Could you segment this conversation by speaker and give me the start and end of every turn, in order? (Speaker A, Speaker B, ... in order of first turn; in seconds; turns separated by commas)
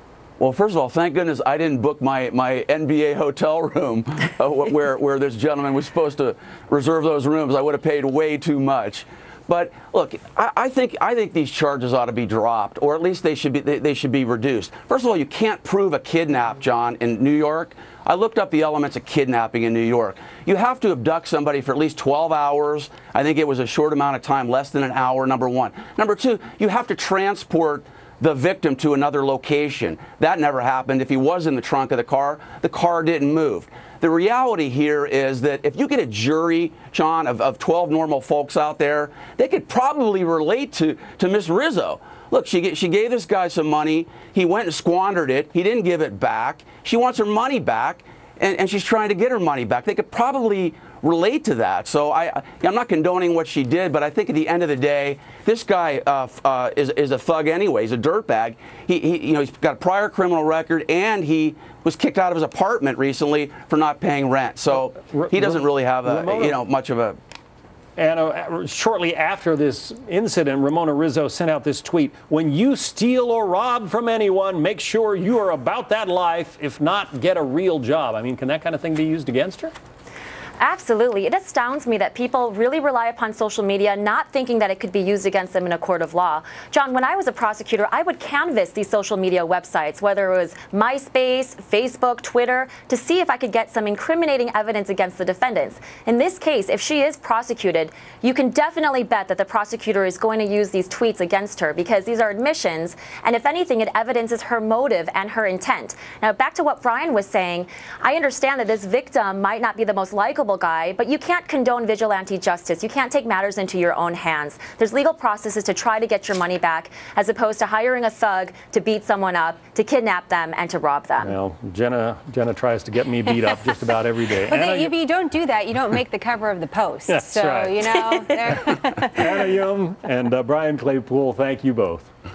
Speaker A: 0.4-67.2, Speaker B: 64.9-66.6, Speaker B: 68.0-79.7, Speaker C: 80.6-121.4, Speaker B: 121.2-124.9, Speaker D: 124.4-129.3, Speaker B: 127.1-132.1